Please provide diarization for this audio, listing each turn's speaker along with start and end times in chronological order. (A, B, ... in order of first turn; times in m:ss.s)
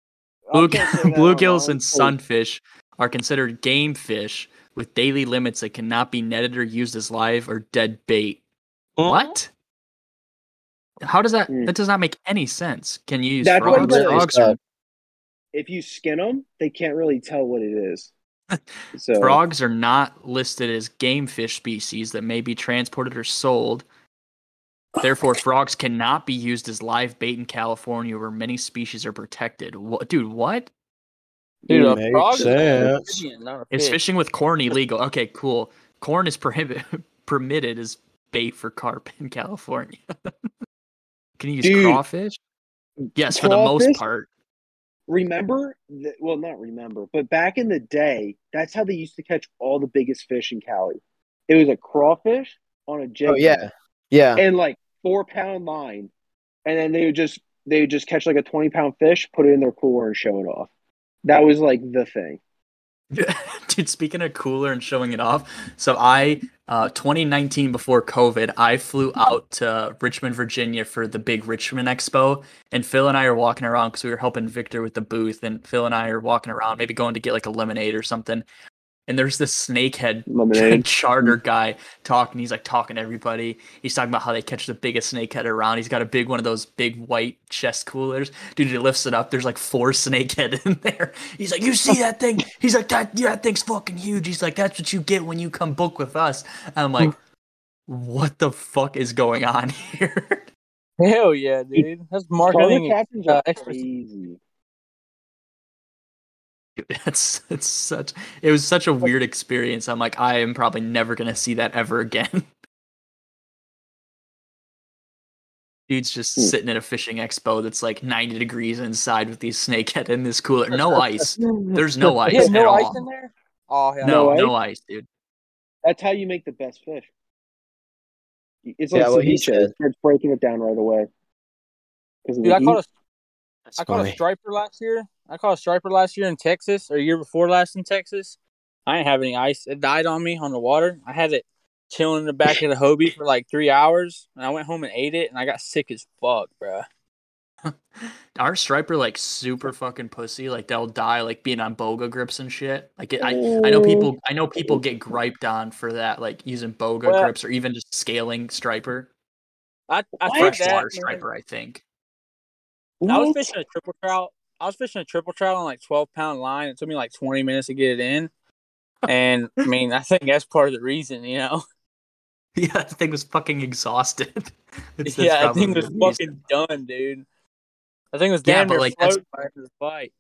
0:00.5-0:02.2 A
0:00.5-0:08.4 B
0:09.0-0:09.3 C
0:09.0-0:09.5 B
0:11.0-0:14.6 B
0:13.4-0:14.2 A
0:13.7-0:14.6 C
0:15.5-0:18.1 A
0:18.9-0:19.4 A
0:19.2-0:23.8 B
0:25.0-0:30.7 B
0:31.7-0:32.9 A
0:31.7-0:33.2 C
0:31.7-0:34.0 D
0:33.7-0:40.0 B
0:41.4-0:42.4 B
0:41.6-0:42.0 A
0:43.1-0:44.0 A
0:43.2-0:44.3 B
0:45.1-0:53.6 A
0:53.2-0:54.4 C
0:54.4-0:56.1 A
0:56.7-1:00.7 A
1:01.2-1:02.4 A
1:03.1-1:18.4 B
1:19.1-1:37.2 B
1:20.3-1:21.4 A
1:37.9-1:40.5 B
1:41.0-1:43.8 D
1:42.5-1:44.4 A
1:46.8-1:52.5 B
1:55.9-2:03.0 B
2:01.4-2:02.6 A
2:02.3-2:04.4 D
2:04.0-2:04.5 A
2:04.0-2:05.1 B
2:05.8-2:07.1 A
2:08.7-2:11.1 A
2:08.9-2:09.7 C
2:12.3-2:12.8 A
2:12.4-2:12.9 D
2:13.7-2:14.2 C
2:13.8-2:18.4 D
2:18.9-2:26.8 D
2:27.7-2:39.1 B
2:33.2-2:34.8 A
2:37.1-2:37.3 D
2:39.9-2:41.2 D
2:40.2-2:41.2 A
2:40.3-2:41.8 B
2:43.0-2:43.5 A
2:43.1-2:48.3 D
2:49.1-2:51.6 D
2:52.6-2:56.3 B
2:55.1-2:57.2 D
2:58.1-3:00.1 D
2:58.4-2:59.2 B